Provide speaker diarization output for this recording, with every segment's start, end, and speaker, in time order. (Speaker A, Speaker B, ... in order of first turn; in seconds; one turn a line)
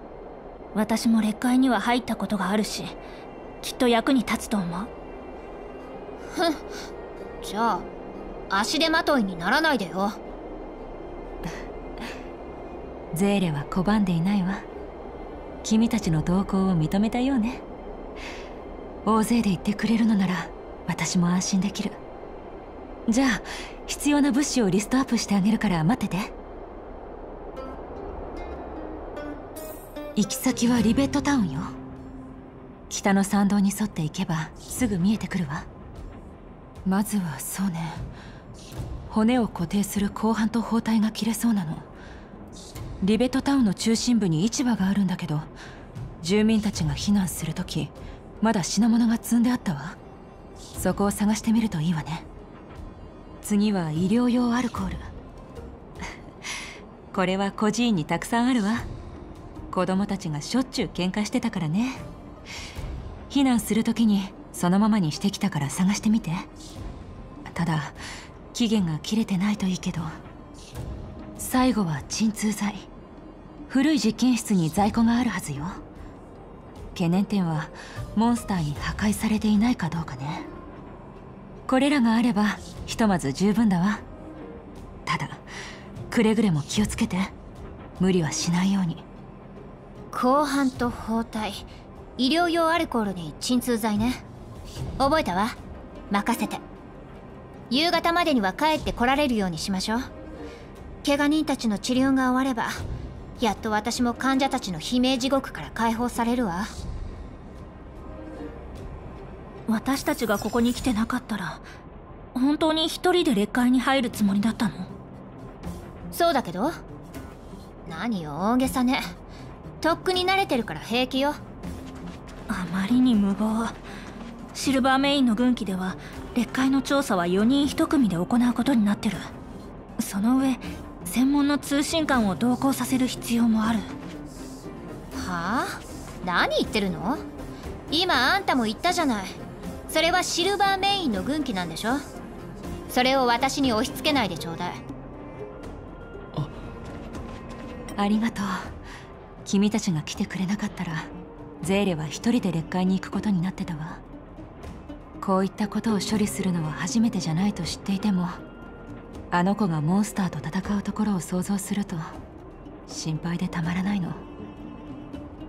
Speaker A: 0.7-3.0
Speaker A: 3.6-4.9
Speaker B: 6.3-6.7
Speaker B: 7.4-7.9
Speaker B: 8.5-10.2
Speaker C: 13.1-14.7
Speaker C: 15.6-17.6
Speaker C: 19.0-22.0
Speaker C: 23.1-26.3
Speaker C: 30.1-31.7
Speaker C: 32.9-35.7
Speaker C: 36.8-38.0
Speaker C: 39.1-41.9
Speaker C: 43.0-45.5
Speaker C: 46.2-50.0
Speaker C: 50.7-52.3
Speaker C: 53.4-55.1
Speaker C: 57.1-58.9
Speaker C: 59.7-62.0
Speaker C: 63.3-66.5
Speaker C: 67.5-68.0
Speaker C: 68.5-70.1
Speaker C: 71.4-72.9
Speaker C: 73.7-75.8
Speaker C: 76.9-80.5
Speaker C: 81.7-84.0
Speaker C: 85.0-85.4
Speaker C: 86.1-87.3
Speaker C: 88.0-89.0
Speaker B: 90.1-91.7
Speaker B: 92.2-94.2
Speaker B: 95.0-95.6
Speaker B: 96.1-96.6
Speaker B: 97.7-100.1
Speaker B: 101.0-102.8
Speaker B: 103.4-106.7
Speaker A: 109.7-111.7
Speaker A: 112.3-114.9
Speaker B: 116.1-116.8
Speaker B: 117.8-119.1
Speaker B: 119.8-121.4
Speaker A: 122.5-123.8
Speaker A: 124.5-129.3
Speaker A: 130.0-133.9
Speaker B: 135.1-137.2
Speaker B: 137.9-139.4
Speaker B: 139.9-142.0
Speaker B: 142.9-144.8
Speaker C: 147.9-148.7
Speaker C: 149.4-154.0
Speaker C: 155.2-158.4
Speaker C: 159.3-162.0
Speaker C: 162.9-164.2